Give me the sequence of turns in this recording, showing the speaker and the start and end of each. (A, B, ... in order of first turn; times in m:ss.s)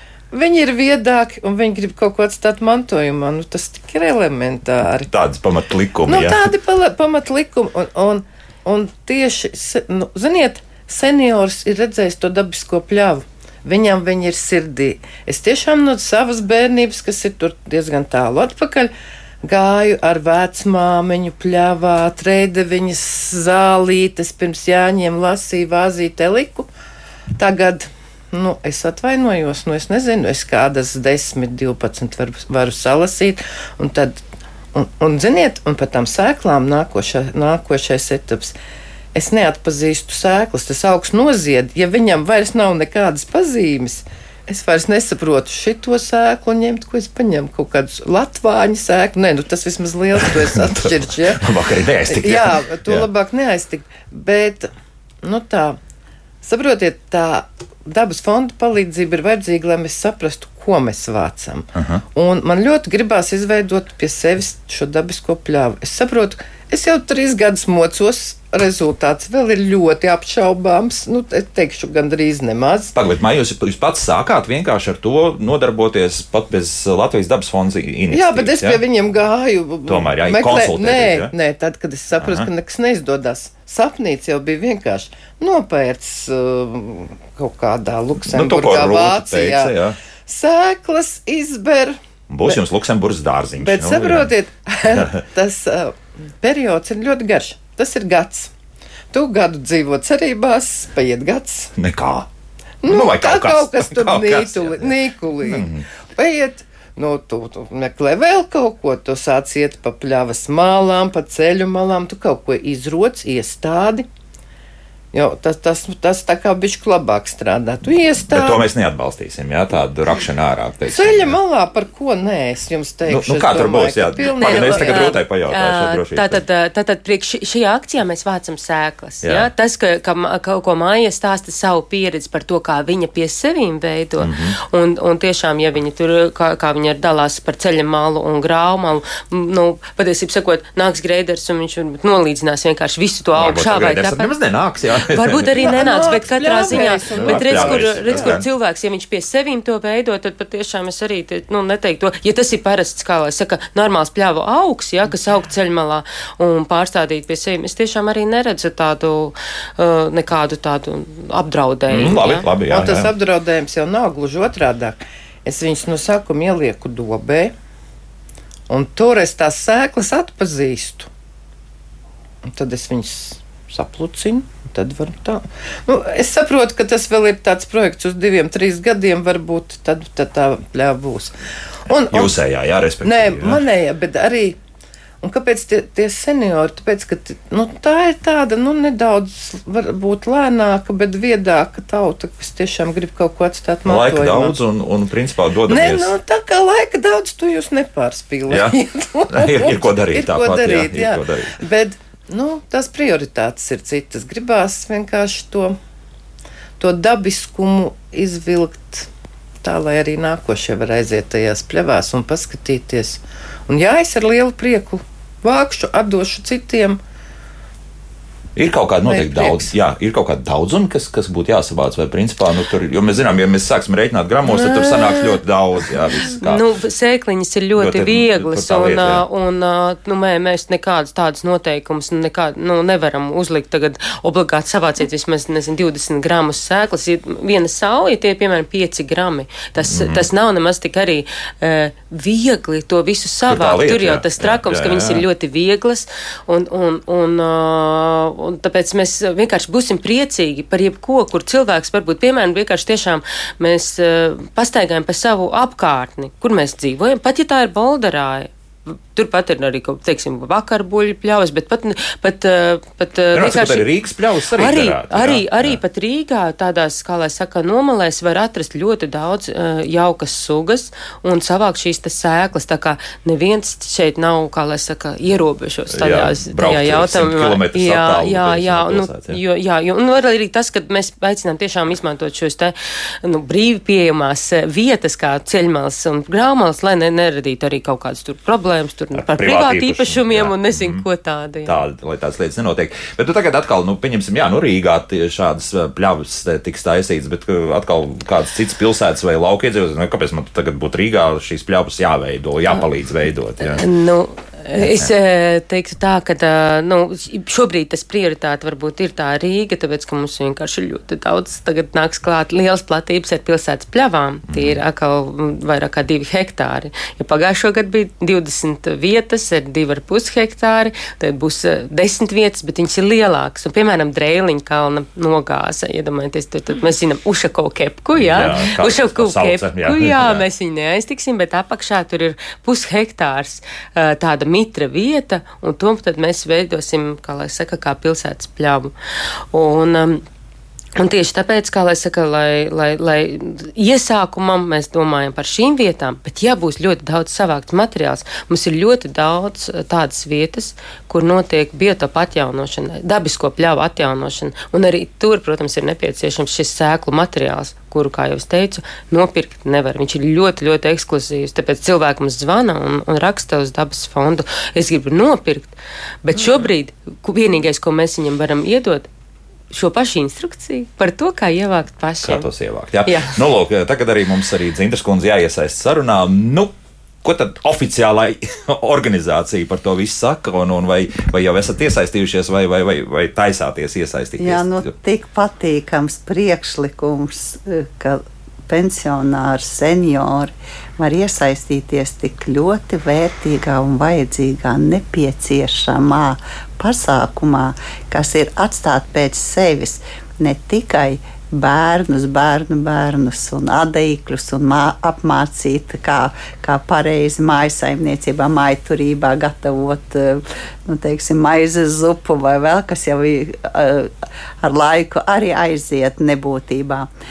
0:00.3-0:05.1 A
0:05.1-0:06.4 B
0:06.1-0:18.9 A
0:19.4-0:26.7 A
0:27.4-0:34.2 A
0:34.7-0:38.6 A
0:39.2-0:51.4 A
0:50.2-0:53.1 B
0:52.1-0:54.7 A
0:55.2-0:55.8 A
0:56.4-1:12.9 A
1:01.8-1:02.0 B
1:13.0-1:18.8 B
1:18.1-1:29.7 A
1:19.9-1:21.3 B
1:22.2-1:22.5 B
1:28.2-1:30.0 B
1:30.3-1:32.6 A
1:32.3-1:34.3 B
1:33.6-1:38.5 A
1:34.9-1:35.2 B
1:39.1-1:41.7 A
1:41.8-1:42.3 B
1:42.8-1:54.1 A
1:42.8-1:45.8 B
1:55.1-1:58.6 A
1:58.3-2:01.4 B
2:00.9-2:05.2 A
2:03.1-2:06.4 B
2:04.4-2:24.3 C
2:09.2-2:09.5 B
2:14.2-2:14.6 B
2:23.4-2:25.8 B
2:25.1-2:42.5 C
2:25.6-2:28.4 A
2:26.6-2:28.5 B
2:41.9-2:43.1 B
2:42.7-2:47.5 A
2:48.7-2:51.1 A
2:52.4-3:01.4 A
3:01.9-3:02.3 A
3:02.1-3:03.6 B
3:03.0-3:04.6 A
3:05.2-3:14.6 A
3:13.8-3:16.2 B
3:15.7-3:25.8 A
3:18.5-3:18.8 B
3:19.3-3:21.6 B
3:26.8-3:29.1 A
3:29.6-3:37.0 A
3:38.6-3:46.6 B
3:39.1-3:39.6 A
3:44.5-3:45.4 A
3:46.4-4:23.9 C
3:47.8-3:49.2 B
3:59.8-4:00.3 B
4:03.5-4:05.2 B
4:23.3-4:25.8 B
4:24.6-4:51.8 C
4:35.9-4:39.4 B
4:49.2-4:51.0 B
4:51.6-5:03.8 B
5:03.6-5:38.9 C
5:04.8-5:05.1 B
5:14.5-5:14.8 B
5:28.2-5:30.4 B
5:39.5-5:40.2 C
5:41.0-6:09.1 C
6:09.7-6:12.5 C
6:12.2-6:24.9 B
6:13.1-6:13.3 C
6:24.4-6:57.1 D